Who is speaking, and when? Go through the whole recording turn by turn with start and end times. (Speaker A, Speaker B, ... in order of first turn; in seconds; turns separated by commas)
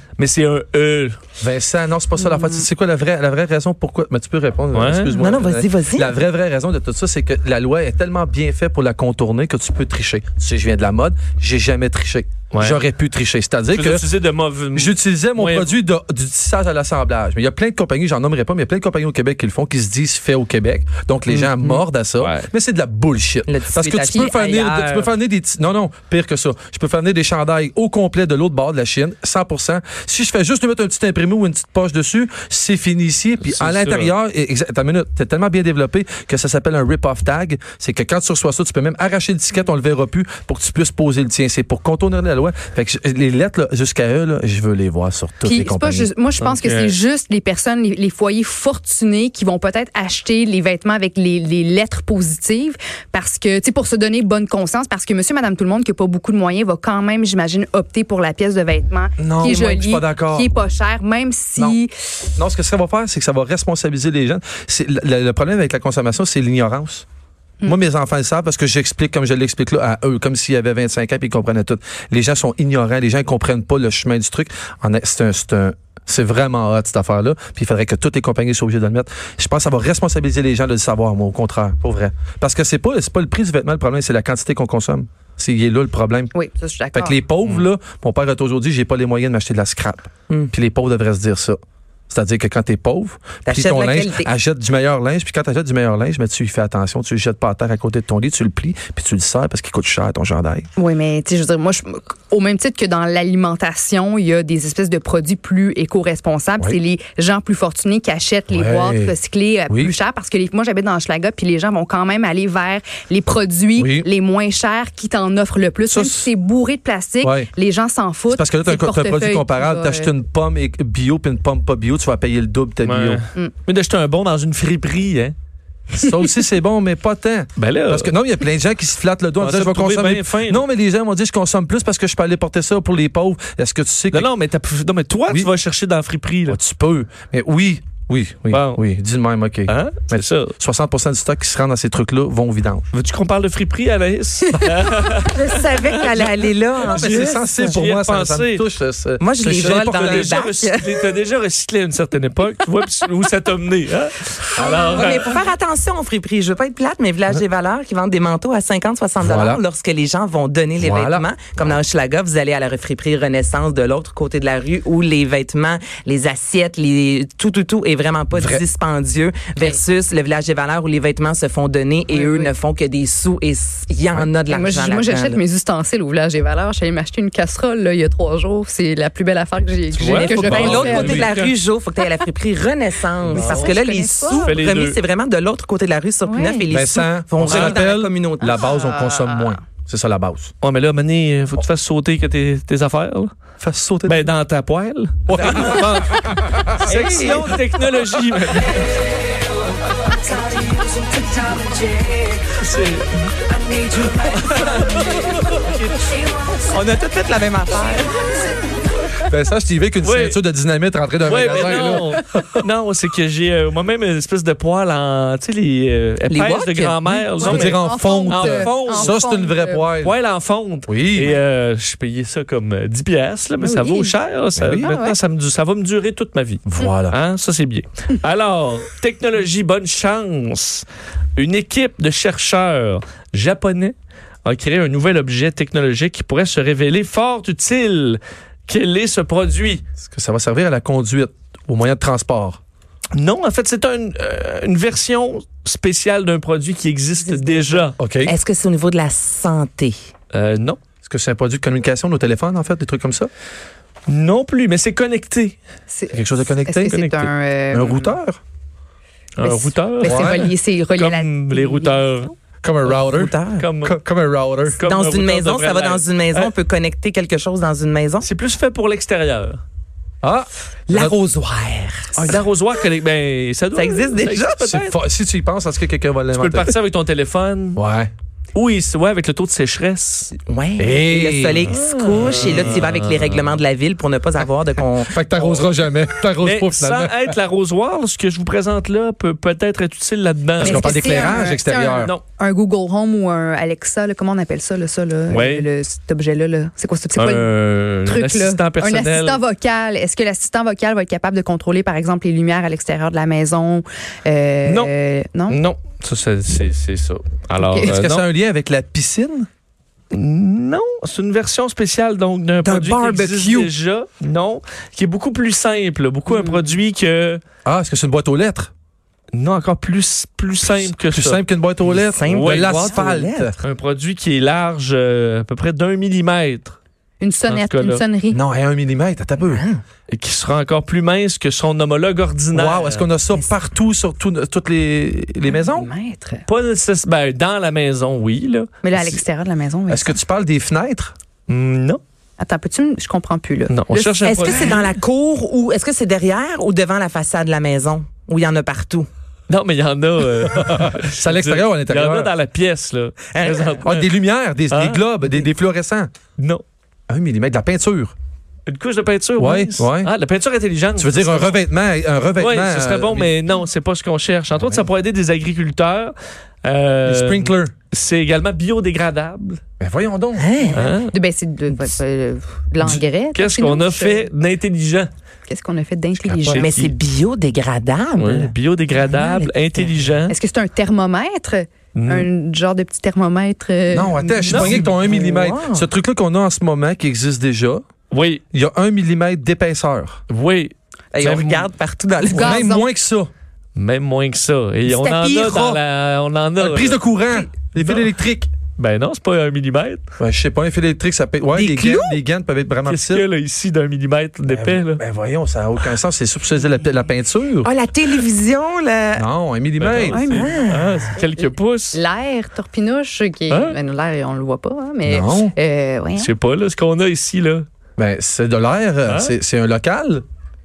Speaker A: 0.2-1.2, Speaker B: 1.4-14.1, Speaker C: 2.1-2.7, Speaker A: 4.7-5.2, Speaker D: 5.2-6.1, Speaker A: 12.5-12.8, Speaker A: 13.7-15.8, Speaker B: 14.7-46.1, Speaker D: 21.3-21.9, Speaker A: 22.2-22.5, Speaker D: 23.5-25.0, Speaker A: 33.4-34.1, Speaker C: 45.4-61.9, Speaker A: 46.4-47.0, Speaker B: 59.2-60.5, Speaker B: 62.4-67.0, Speaker B: 67.7-86.3, Speaker C: 86.3-87.2, Speaker B: 86.9-91.6, Speaker B: 92.1-100.7, Speaker D: 93.5-94.3, Speaker C: 100.8-120.1, Speaker B: 108.5-109.1, Speaker B: 109.7-109.9, Speaker B: 113.8-114.1, Speaker B: 115.9-116.3, Speaker B: 117.2-117.5, Speaker B: 118.3-123.2, Speaker A: 122.8-125.3, Speaker B: 126.0-134.3, Speaker A: 127.6-128.1, Speaker A: 129.4-130.6, Speaker A: 134.1-136.6, Speaker B: 136.5-142.8, Speaker A: 138.5-138.8, Speaker A: 139.7-140.5, Speaker A: 142.9-148.7, Speaker D: 145.2-147.8, Speaker B: 146.8-150.4, Speaker D: 149.2-150.9, Speaker A: 149.6-155.3, Speaker D: 154.6-175.4, Speaker B: 159.2-159.6, Speaker B: 160.8-161.3, Speaker B: 168.3-168.6, Speaker C: 172.1-172.5, Speaker C: 174.5-181.3, Speaker A: 179.9-181.6, Speaker D: 180.0-188.6, Speaker B: 180.4-181.3, Speaker B: 183.2-183.8, Speaker C: 183.3-184.5, Speaker A: 184.3-185.0, Speaker C: 186.2-186.7, Speaker B: 186.7-190.5, Speaker A: 187.4-187.8, Speaker C: 188.4-189.6, Speaker A: 190.6-193.3, Speaker B: 193.6-194.3, Speaker A: 194.1-199.0, Speaker B: 195.3-196.9, Speaker D: 196.9-197.5, Speaker D: 200.5-202.1, Speaker A: 202.5-206.2, Speaker D: 206.6-208.5, Speaker B: 209.2-212.6, Speaker A: 210.0-210.4, Speaker A: 211.2-219.1, Speaker D: 216.3-217.2, Speaker B: 217.4-220.2, Speaker C: 217.4-219.9, Speaker A: 220.0-230.8, Speaker B: 220.9-221.3, Speaker C: 223.6-224.1, Speaker B: 224.6-225.0, Speaker C: 224.8-225.2, Speaker B: 226.7-227.2, Speaker A: 231.4-239.8, Speaker B: 240.0-242.6, Speaker A: 243.2-248.0, Speaker C: 247.3-247.8, Speaker B: 248.0-248.3, Speaker D: 248.2-249.9, Speaker A: 250.3-250.8, Speaker B: 251.0-253.3, Speaker A: 254.1-255.6, Speaker C: 255.9-258.2, Speaker B: 256.1-258.4, Speaker A: 259.4-262.3, Speaker C: 259.4-262.2, Speaker B: 260.0-260.5, Speaker B: 262.6-264.8, Speaker D: 262.9-263.6, Speaker A: 263.6-264.0, Speaker A: 264.7-266.5, Speaker D: 264.9-268.3, Speaker A: 268.2-269.6, Speaker B: 270.2-271.1, Speaker D: 270.9-272.3, Speaker B: 272.1-272.4, Speaker A: 272.2-275.0, Speaker D: 273.7-274.7, Speaker B: 274.6-276.7, Speaker A: 276.3-277.8, Speaker B: 277.8-278.1, Speaker A: 278.6-280.3, Speaker D: 280.4-285.6, Speaker B: 280.8-282.8, Speaker A: 281.7-283.6, Speaker B: 285.1-287.4, Speaker A: 286.4-291.4, Speaker B: 290.6-292.1, Speaker C: 290.6-305.6, Speaker A: 295.3-295.7, Speaker A: 297.1-299.4, Speaker A: 304.6-304.9, Speaker A: 305.5-308.2, Speaker C: 307.6-307.9, Speaker B: 307.8-309.5, Speaker A: 310.1-317.4, Speaker B: 312.6-313.7, Speaker C: 316.3-316.7, Speaker B: 317.6-318.7, Speaker A: 319.3-321.4, Speaker B: 320.7-323.5, Speaker D: 321.8-323.6, Speaker A: 322.2-323.0, Speaker A: 323.6-326.8, Speaker C: 327.2-328.4, Speaker A: 327.5-328.0, Speaker B: 328.3-329.6, Speaker D: 329.4-329.8, Speaker A: 330.1-333.1, Speaker B: 332.5-335.9, Speaker C: 335.4-336.4, Speaker A: 336.5-338.7, Speaker C: 338.8-340.2, Speaker B: 338.9-339.2, Speaker B: 339.9-341.1, Speaker A: 341.5-342.0, Speaker C: 342.4-344.9, Speaker A: 343.7-344.8, Speaker D: 344.2-349.1, Speaker A: 349.5-354.1, Speaker B: 350.5-352.3, Speaker D: 353.3-353.8, Speaker B: 353.8-356.1, Speaker A: 354.7-355.0, Speaker A: 356.4-356.6, Speaker B: 357.1-358.1, Speaker A: 358.7-361.6, Speaker B: 359.4-360.1, Speaker B: 361.0-363.4, Speaker A: 362.4-369.6, Speaker B: 364.5-364.9, Speaker B: 367.1-367.7, Speaker B: 369.8-370.5, Speaker D: 370.4-370.9, Speaker A: 370.7-371.1, Speaker C: 370.8-374.3, Speaker A: 373.3-375.1, Speaker C: 375.5-376.7, Speaker B: 376.2-376.6, Speaker A: 376.5-376.9, Speaker D: 376.6-380.0, Speaker A: 378.1-380.4, Speaker C: 380.3-384.6, Speaker A: 381.9-382.3, Speaker B: 383.9-387.8, Speaker D: 384.2-385.9, Speaker A: 388.1-388.4, Speaker B: 388.5-390.2, Speaker A: 390.3-391.7, Speaker D: 391.1-392.6, Speaker C: 392.2-392.9, Speaker B: 392.3-393.3, Speaker A: 393.8-398.1, Speaker B: 396.6-398.5, Speaker A: 398.8-400.0, Speaker B: 400.2-403.2, Speaker D: 401.5-402.2, Speaker A: 402.9-405.0, Speaker B: 404.5-407.7, Speaker D: 407.6-409.2, Speaker B: 409.1-410.4, Speaker A: 409.8-412.0, Speaker C: 410.1-410.6, Speaker D: 410.3-411.1, Speaker C: 411.9-416.3, Speaker A: 413.5-413.8, Speaker B: 415.0-415.6, Speaker A: 416.2-417.6, Speaker B: 418.0-420.2, Speaker A: 419.1-419.3